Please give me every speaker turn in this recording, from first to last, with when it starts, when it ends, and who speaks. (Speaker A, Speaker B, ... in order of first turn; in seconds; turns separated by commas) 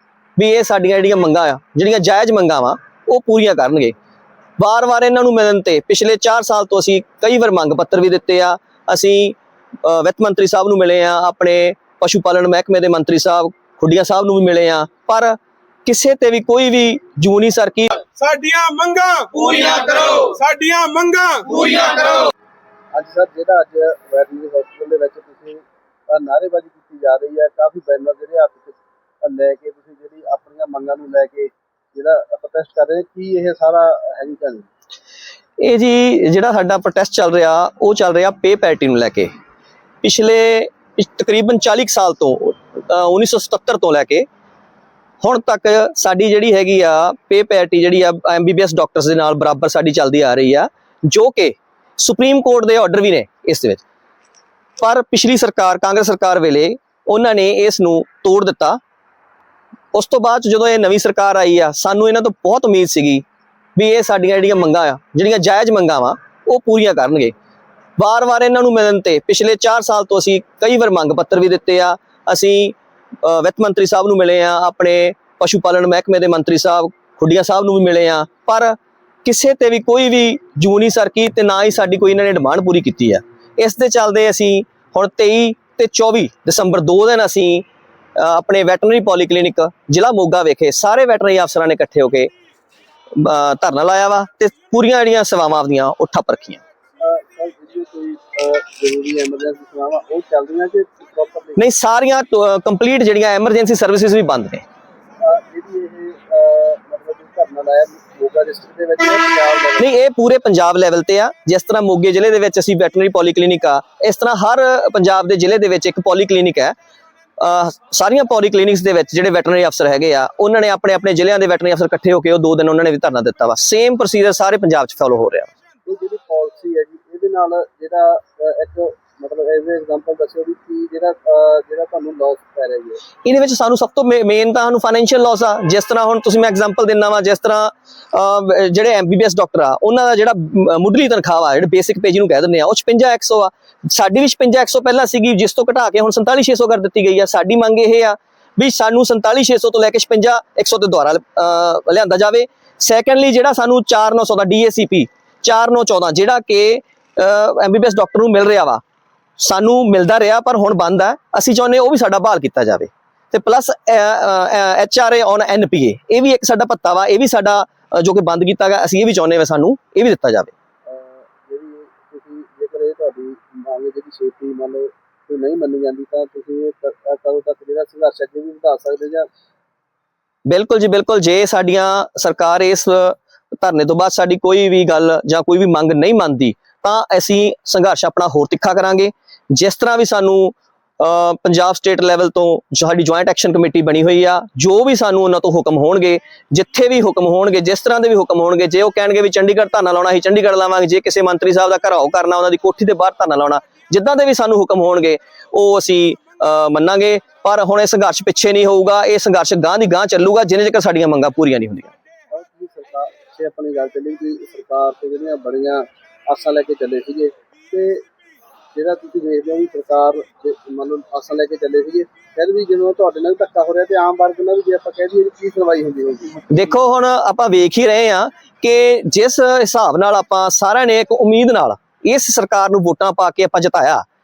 Speaker A: 0.4-3.9, Speaker A: 4.6-18.0, Speaker B: 18.1-22.3, Speaker C: 22.9-34.7, Speaker A: 35.6-39.3, Speaker A: 40.0-44.2, Speaker A: 45.2-53.8, Speaker A: 54.8-58.8, Speaker A: 59.9-63.2, Speaker A: 63.8-67.3, Speaker A: 68.0-87.7, Speaker A: 88.2-92.3, Speaker A: 93.1-96.6, Speaker C: 97.0-101.6, Speaker A: 101.6-104.6, Speaker C: 105.2-109.9, Speaker A: 109.8-116.7, Speaker A: 117.4-125.5, Speaker C: 125.8-133.0, Speaker A: 133.2-158.8, Speaker A: 159.4-170.5, Speaker C: 170.9-179.3, Speaker A: 180.5-211.9, Speaker C: 212.3-218.0, Speaker C: 218.7-226.8, Speaker A: 226.5-234.0